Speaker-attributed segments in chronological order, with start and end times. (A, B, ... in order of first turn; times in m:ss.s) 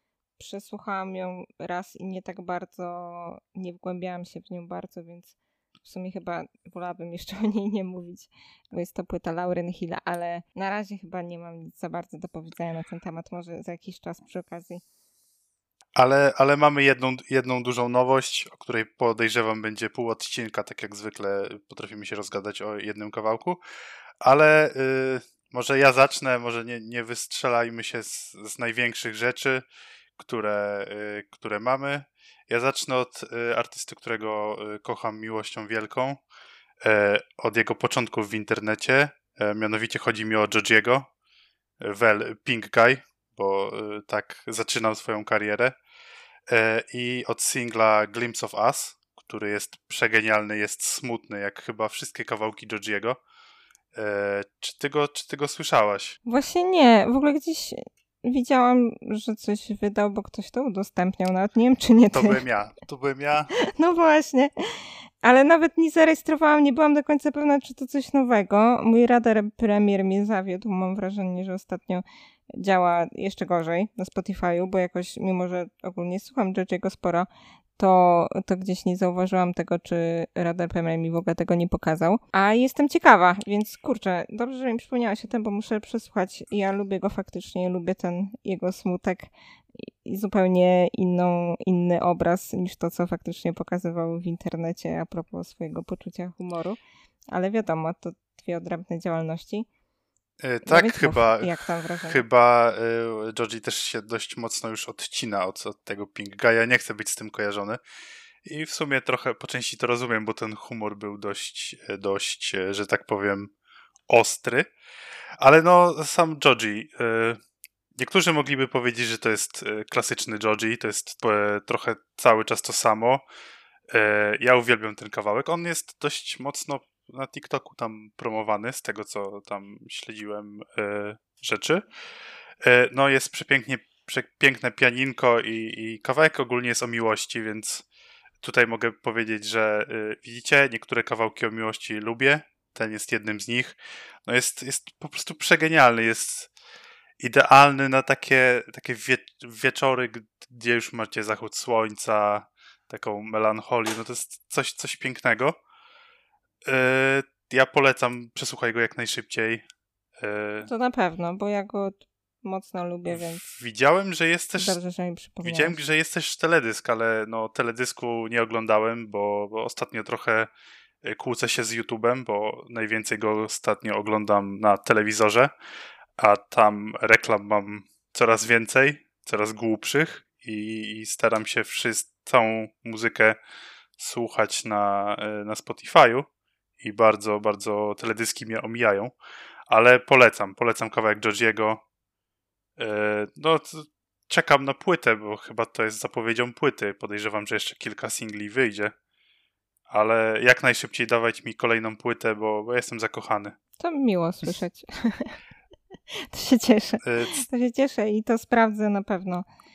0:00.4-0:14.8 A
0:16.0-0:23.6 B
0:24.2-0:29.6 B
0:30.2-0:36.2 B
0:36.8-0:41.1 B
0:41.8-0:45.8 B
0:46.5-0:53.2 B
0:53.9-0:56.2 B
0:56.3-1:02.4 A
1:02.1-1:03.6 B
1:03.6-1:04.5 A
1:05.2-1:36.8 A
1:37.3-1:39.7 A
1:40.4-1:47.8 B
1:40.6-1:42.2 A
1:48.4-1:53.5 B
1:54.1-1:54.7 B
1:55.4-1:57.4 B
1:58.0-2:03.2 B
2:03.9-2:11.8 B
2:12.6-2:17.9 B
2:18.4-2:26.5 B
2:27.2-2:35.6 B
2:36.7-2:39.6 B
2:40.2-2:40.7 B
2:40.7-2:43.4 A
2:43.1-2:44.8 B
2:44.6-2:45.8 A
2:45.4-2:50.5 B
2:51.0-2:55.5 B
2:56.2-3:03.4 B
3:04.0-3:06.3 B
3:06.8-3:09.1 B
3:09.7-3:11.8 B
3:12.8-3:18.9 B
3:19.9-3:23.6 B
3:23.8-3:25.3 A
3:26.1-3:29.4 A
3:27.0-3:27.4 B